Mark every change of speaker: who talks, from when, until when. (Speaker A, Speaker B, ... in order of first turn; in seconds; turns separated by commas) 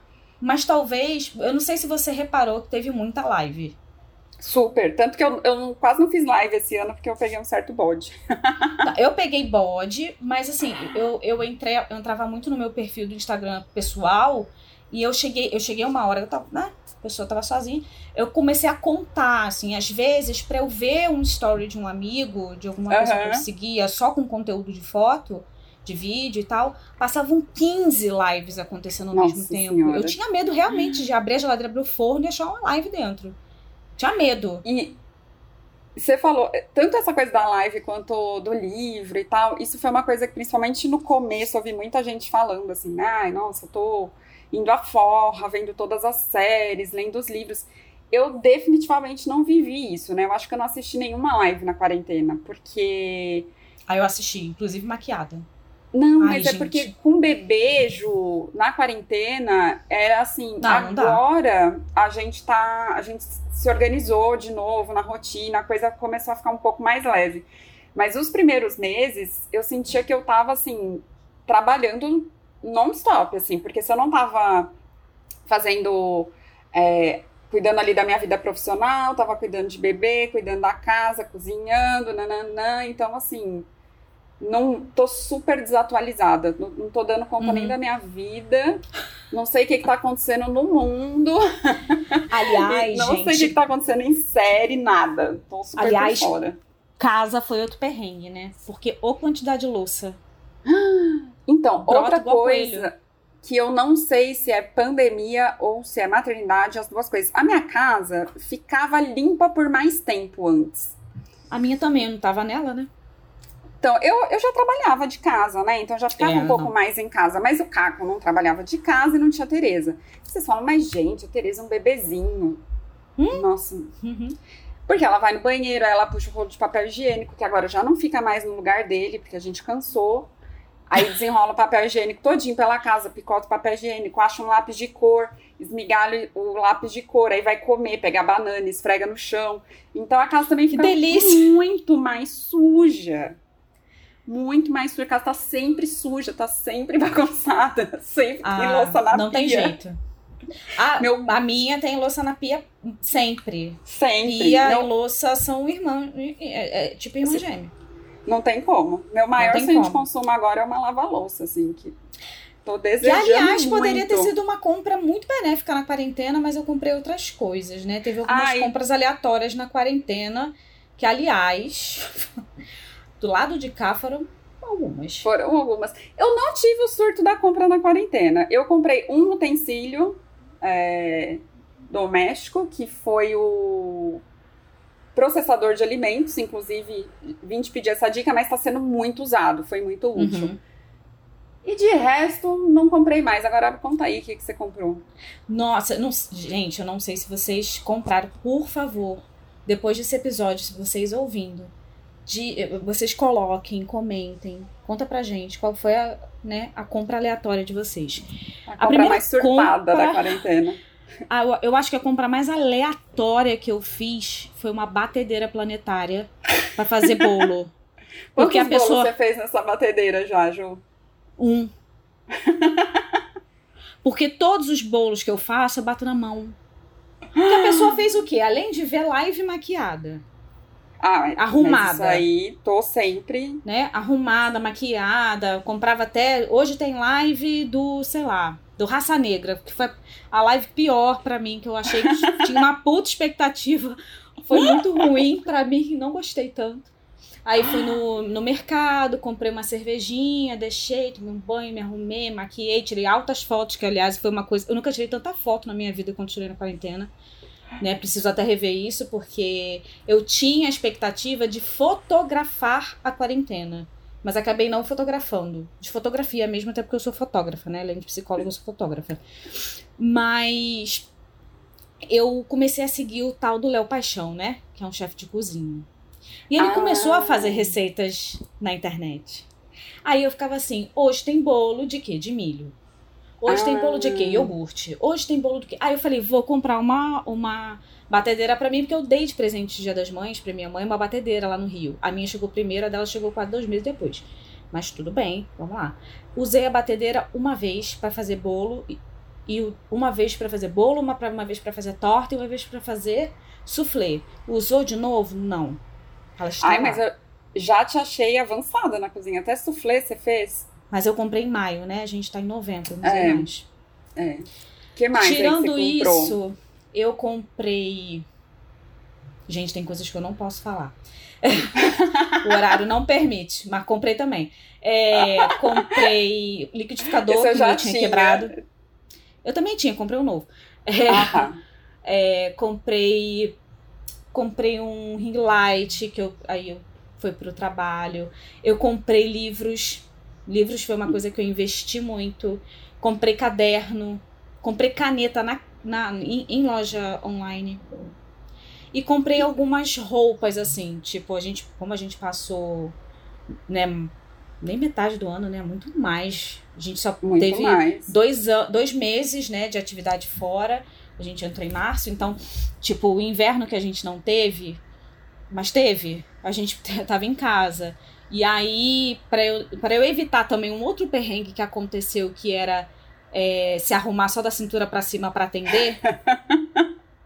Speaker A: 0.4-3.8, Speaker B: 4.4-8.9, Speaker A: 8.8-33.4, Speaker B: 22.9-23.5, Speaker B: 29.1-30.2, Speaker A: 34.0-34.6, Speaker B: 34.6-35.0, Speaker B: 36.0-53.5, Speaker A: 53.9-55.5, Speaker B: 55.9-74.7, Speaker A: 56.2-56.9, Speaker A: 60.6-61.2, Speaker B: 75.5-83.7, Speaker B: 84.4-96.6, Speaker A: 87.4-87.8, Speaker A: 92.3-93.6, Speaker A: 95.8-96.3, Speaker A: 97.0-100.2, Speaker B: 100.7-111.0, Speaker A: 101.8-102.9, Speaker A: 111.5-112.9, Speaker B: 113.8-122.6, Speaker A: 116.2-116.7, Speaker A: 123.2-123.5, Speaker B: 123.3-124.0, Speaker A: 124.0-124.4, Speaker B: 124.9-130.3, Speaker B: 130.9-143.4, Speaker A: 140.7-141.5, Speaker B: 144.3-149.8, Speaker A: 148.4-150.0, Speaker A: 150.8-157.7, Speaker B: 151.0-151.3, Speaker B: 153.9-154.9, Speaker B: 158.3-162.0, Speaker A: 159.4-160.1, Speaker B: 162.6-164.3, Speaker A: 163.0-172.4, Speaker B: 168.2-168.7, Speaker A: 173.2-175.3, Speaker B: 175.2-184.2, Speaker B: 185.2-190.5, Speaker A: 190.2-190.6, Speaker B: 191.7-195.1, Speaker A: 195.5-201.7, Speaker A: 202.3-208.3, Speaker B: 208.7-210.8, Speaker A: 208.8-210.3, Speaker A: 211.3-217.7, Speaker B: 218.4-220.8, Speaker A: 218.4-219.1, Speaker A: 221.4-221.7, Speaker B: 222.3-223.2, Speaker A: 224.0-226.6, Speaker B: 227.4-227.9, Speaker A: 227.4-230.2, Speaker B: 231.0-233.6, Speaker A: 231.4-232.2, Speaker A: 233.7-246.9, Speaker B: 242.1-242.6, Speaker B: 244.6-245.0, Speaker A: 247.5-257.1, Speaker A: 257.8-269.2, Speaker A: 270.0-271.1, Speaker A: 272.1-275.9, Speaker A: 276.5-279.5, Speaker B: 276.6-277.7, Speaker A: 280.1-282.8, Speaker A: 283.4-305.8, Speaker B: 283.5-284.5, Speaker A: 306.4-307.0, Speaker B: 306.6-310.7, Speaker A: 310.9-313.7, Speaker B: 313.0-313.5, Speaker B: 314.2-316.4, Speaker A: 315.1-318.3, Speaker A: 319.5-321.8, Speaker B: 321.8-322.6, Speaker A: 322.4-328.5, Speaker B: 325.2-326.1, Speaker B: 327.3-328.6, Speaker A: 329.4-331.5, Speaker B: 331.1-331.6, Speaker A: 332.1-333.6, Speaker A: 334.3-347.9, Speaker A: 348.9-352.9, Speaker A: 353.7-364.8, Speaker B: 357.2-358.1, Speaker A: 365.5-376.0, Speaker B: 376.1-376.8